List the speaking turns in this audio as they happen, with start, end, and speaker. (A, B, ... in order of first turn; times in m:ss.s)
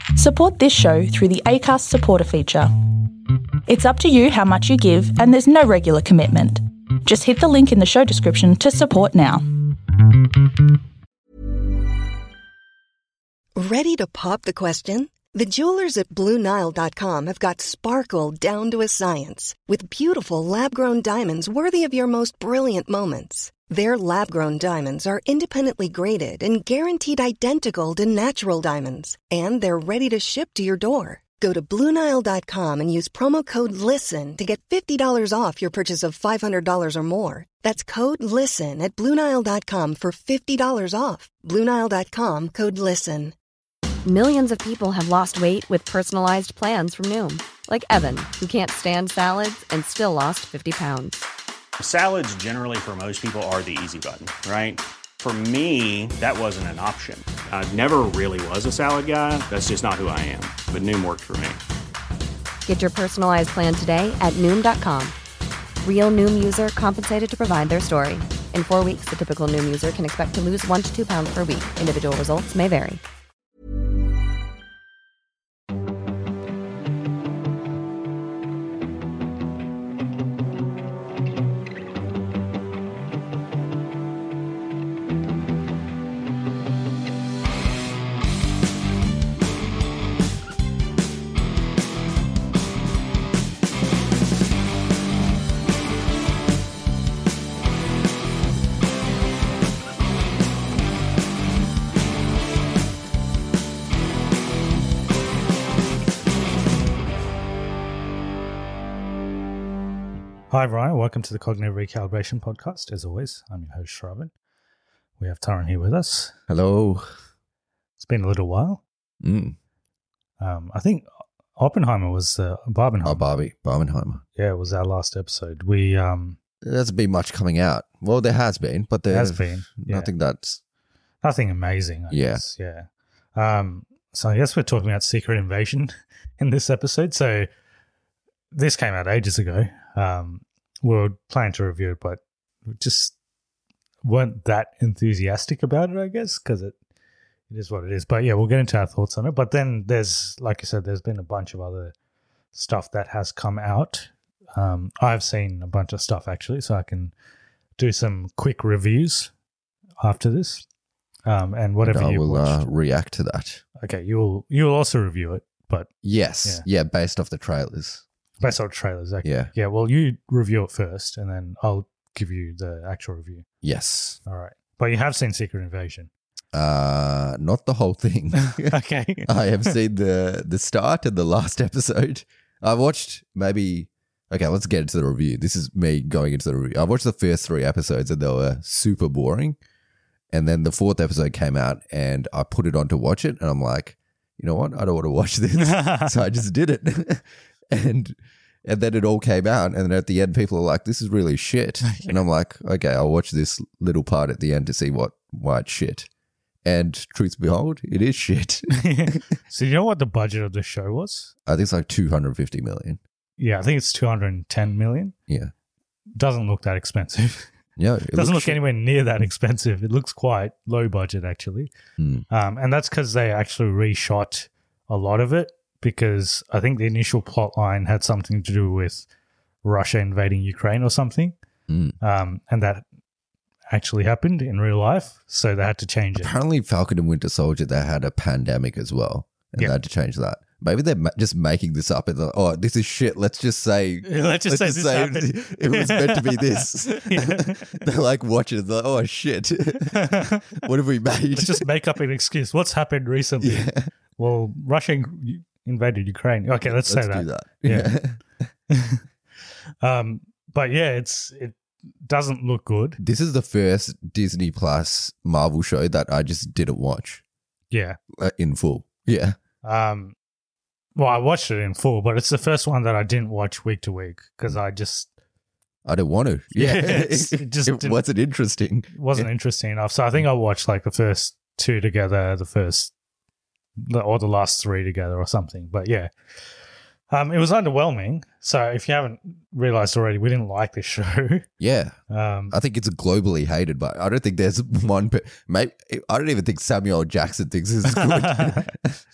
0:00.2-0:03.1 A
0:03.7-0:09.4 A
0:13.6-0:43.3 B
0:44.0-0:51.3 C
0:51.8-1:01.6 D
1:02.6-1:05.2 C
1:05.8-1:13.0 C
1:50.5-1:54.3 E
1:55.2-1:56.3 E
1:56.5-1:57.0 F
1:58.0-1:58.8 E
1:59.2-1:59.6 F
2:00.4-2:01.1 E
2:01.6-2:03.3 E
2:03.0-2:04.2 F
2:04.4-2:06.4 E
2:06.6-2:10.6 F
2:09.1-2:10.1 E
2:11.2-2:17.5 E
2:12.1-2:12.4 F
2:18.5-2:23.1 E
2:24.0-2:26.7 E
2:27.5-2:31.9 E
2:32.5-2:37.1 E
2:37.8-2:39.3 E
2:40.0-2:40.7 E
2:41.2-2:42.7 E
2:41.8-2:43.6 F
2:43.8-2:45.9 E
2:46.0-2:48.0 F
2:48.4-2:53.4 E
2:49.2-2:49.5 F
2:53.6-2:54.2 F
2:54.2-2:56.1 E
2:56.5-2:58.8 F
2:58.5-2:59.8 E
2:59.2-3:09.6 F
3:10.3-3:26.1 F
3:15.6-3:16.1 E
3:21.8-3:22.2 E
3:26.6-3:29.2 F
3:28.8-3:31.3 E
3:31.4-3:33.0 F
3:33.4-3:35.1 E
3:36.2-3:37.5 E
3:37.8-3:38.6 F
3:38.1-3:41.7 E
3:42.0-3:42.2 F
3:42.3-3:49.0 E
3:49.6-3:51.4 E
3:51.7-3:52.0 F
3:52.0-3:52.8 E
3:53.7-3:56.3 E
3:56.1-4:11.6 F
4:04.0-4:07.8 E
4:09.9-4:10.6 E
4:11.3-4:17.9 E
4:13.4-4:13.9 F
4:16.6-4:18.2 F
4:18.7-4:19.0 E
4:19.8-4:23.0 E
4:23.0-4:27.2 F
4:27.7-4:28.0 E
4:28.1-4:29.4 F
4:29.6-4:30.2 E
4:31.0-4:35.1 E
4:35.9-4:39.3 F
4:36.6-4:38.0 E
4:38.9-4:42.9 E
4:43.8-4:46.1 E
4:47.1-4:51.5 E
4:51.6-4:52.0 F
4:52.1-4:52.5 E
4:52.5-4:58.9 F
4:57.8-4:58.7 E